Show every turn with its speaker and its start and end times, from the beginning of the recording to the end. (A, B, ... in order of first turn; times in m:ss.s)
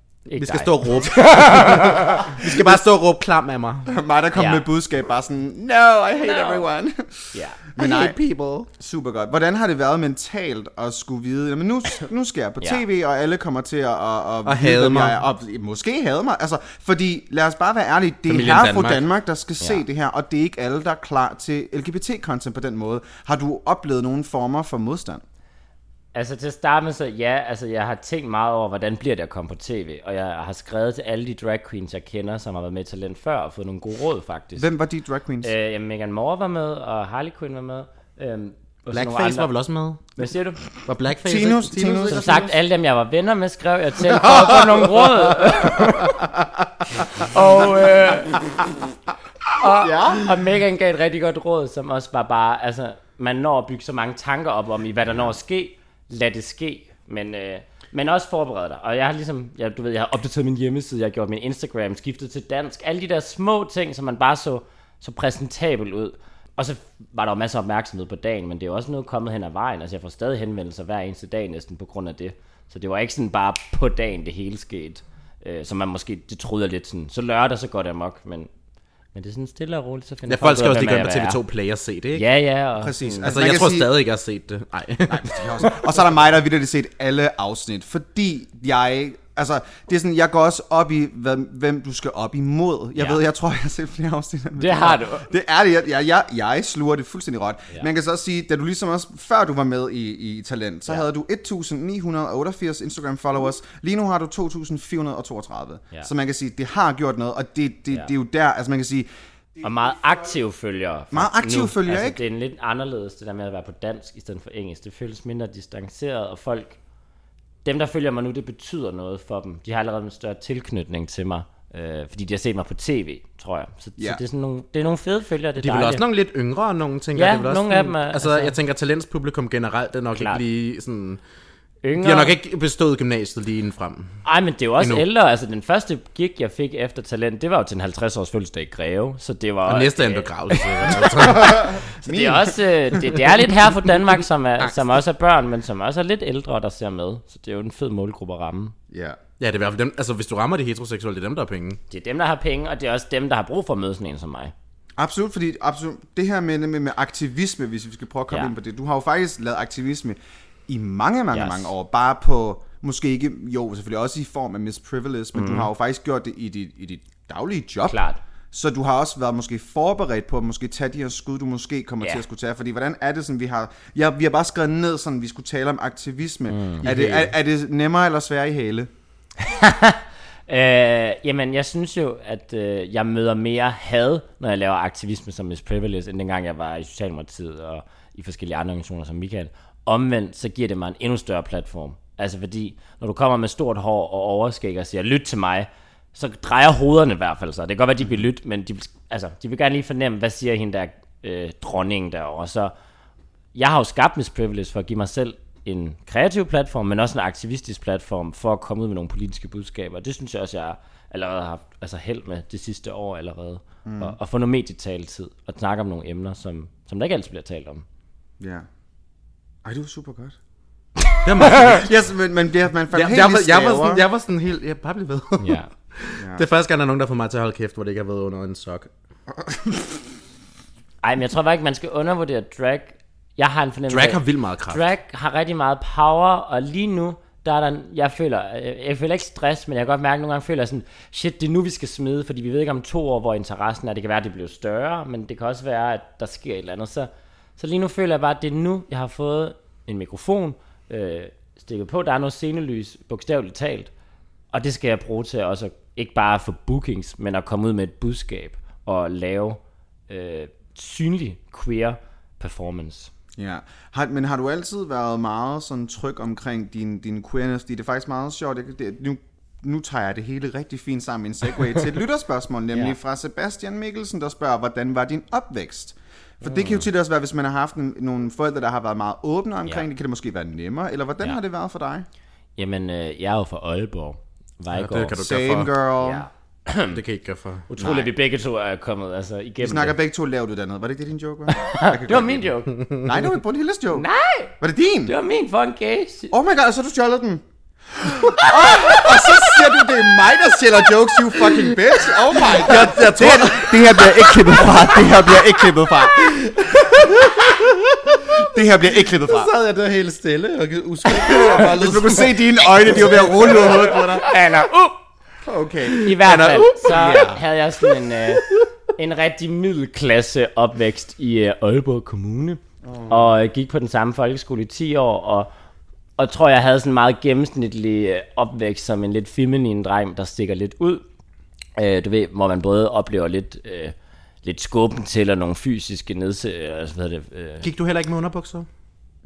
0:00.3-0:02.4 A
0:00.3-0:03.9 B
0:03.8-0:08.2 C
0:04.4-0:04.6 A
0:06.2-0:06.6 A
0:07.3-0:07.6 A
0:07.8-0:08.7 B
0:08.7-0:25.2 C
0:14.4-0:15.2 B
0:18.3-0:19.0 B
0:26.1-0:34.7 A
0:34.6-0:35.5 C
0:35.4-0:39.5 A
0:38.9-0:40.2 B
0:40.2-0:40.6 A
0:40.8-0:42.4 B
0:41.2-0:42.6 C
0:42.1-0:46.2 A
0:44.1-0:44.8 C
0:47.2-0:48.4 A
0:49.6-1:18.5 A
0:49.8-0:50.3 C
1:19.1-1:21.4 A
1:20.3-1:22.2 B
1:22.1-1:23.4 A
1:22.8-1:23.9 C
1:23.2-1:25.7 B
1:25.1-1:49.1 C
1:34.6-1:35.3 A
1:49.6-1:56.8 A
1:51.1-1:52.2 C
1:57.6-2:06.0 A
2:05.6-2:11.2 B
2:07.1-2:08.5 A
2:10.1-2:10.4 A
2:11.8-2:12.3 A
2:12.0-2:14.2 B
2:14.2-2:28.7 A
2:14.8-2:15.0 B
2:19.6-2:21.8 B
2:21.2-2:23.2 C
2:28.9-2:29.2 C
2:29.4-2:31.8 B
2:31.9-2:34.5 A
2:35.0-2:48.0 C
2:41.3-2:41.7 A
2:45.3-2:45.7 A
2:47.9-2:48.2 A
2:48.5-2:58.9 C
2:56.5-2:56.8 A
2:56.8-2:57.3 B
2:59.4-3:22.7 A
3:23.5-3:37.8 A
3:33.8-3:34.2 C
3:38.4-3:38.7 C
3:39.6-3:40.4 C
3:41.2-3:41.9 B
3:41.5-3:44.0 C
3:42.9-3:48.9 B
3:45.4-3:45.7 A
3:46.2-3:46.4 C
3:49.3-3:50.0 C
3:51.0-4:13.9 A
3:53.9-3:54.8 B
4:14.5-4:23.1 A
4:23.4-4:42.1 C
4:32.7-4:33.0 A
4:36.4-4:36.8 A
4:42.6-4:45.2 A
4:44.7-4:45.7 B
4:45.2-4:46.2 C
4:46.0-4:47.0 A
4:46.9-4:47.7 B
4:47.7-4:50.0 A
4:47.8-4:48.1 C
4:49.6-4:54.1 C
4:51.6-4:52.8 A
4:52.8-4:53.1 B
4:53.9-4:54.5 A
4:54.6-4:55.1 C
4:55.0-4:56.3 A
4:56.3-5:07.3 C
5:01.4-5:05.5 B
5:06.2-5:08.4 B
5:08.3-5:09.5 C
5:09.1-5:14.0 B
5:11.1-5:14.3 C
5:14.2-5:15.0 A
5:15.4-5:16.1 C
5:15.9-5:18.6 B
5:16.0-5:18.4 A
5:16.9-5:17.4 C
5:19.0-5:25.5 A
5:22.8-5:23.3 C
5:26.2-5:31.0 A
5:31.8-5:37.7 A
5:37.6-5:38.7 B